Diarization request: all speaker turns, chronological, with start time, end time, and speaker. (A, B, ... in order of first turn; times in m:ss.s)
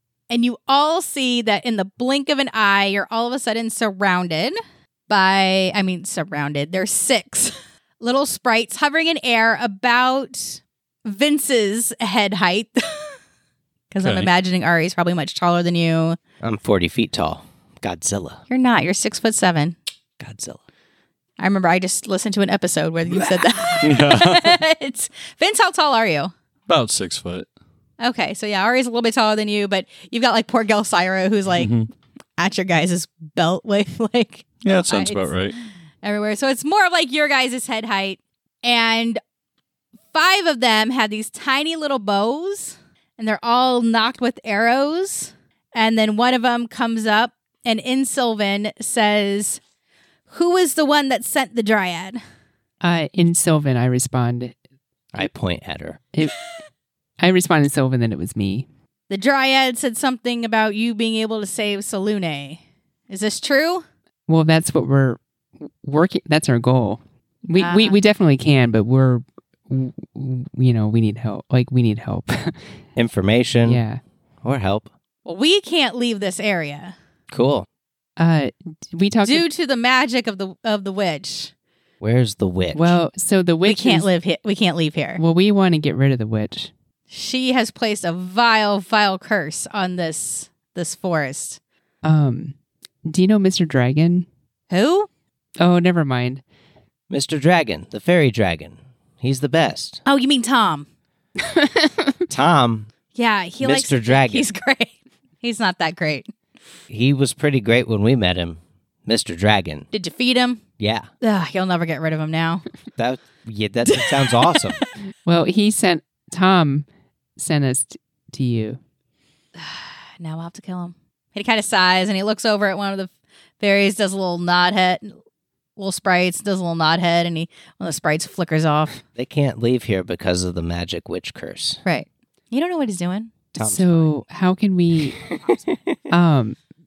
0:00.3-0:04.6 A
0:05.1-0:13.2 A
0:13.9-0:16.2 A
0:14.0-0:14.3 B
0:16.4-0:18.4 C
0:18.5-0:19.8 A
0:20.2-0:20.6 C
0:21.4-0:26.3 A
0:23.2-0:23.4 C
0:23.8-0:24.6 B
0:26.7-0:27.5 B
0:28.0-0:31.7 A
0:31.6-0:31.9 B
0:32.4-0:39.2 A
0:34.6-0:35.6 B
0:40.1-0:49.6 A
0:50.3-0:52.2 A
0:52.8-0:54.6 D
0:55.1-0:56.0 C
0:57.2-0:58.7 D
0:59.1-1:03.8 A
1:04.3-1:12.8 D
1:07.6-1:08.0 A
1:13.0-1:13.8 C
1:13.6-1:14.0 D
1:14.4-1:14.9 C
1:15.3-1:17.0 A
1:17.3-1:17.7 C
1:18.2-1:19.5 D
1:19.2-1:21.5 A
1:22.0-1:23.0 C
1:22.7-1:24.1 D
1:23.6-1:25.2 A
1:25.2-1:26.7 D
1:27.1-1:31.6 A
1:32.0-1:34.3 D
1:34.7-1:35.1 A
1:35.6-1:36.4 D
1:37.1-1:40.0 C
1:40.1-1:40.9 A
1:41.4-1:42.2 D
1:42.3-1:42.9 C
1:43.1-1:46.3 A
1:43.6-1:44.5 C
1:46.9-1:49.9 C
1:49.9-1:50.6 A
1:50.8-1:51.1 C
1:51.2-1:52.7 A
1:53.0-1:54.8 C
1:53.9-1:54.8 A
1:55.2-1:58.8 D
1:59.6-2:05.2 A
2:05.8-2:09.0 A
2:09.1-2:11.8 C
2:11.8-2:13.4 A
2:13.6-2:14.2 C
2:13.6-2:15.2 D
2:15.2-2:15.5 C
2:16.1-2:16.6 D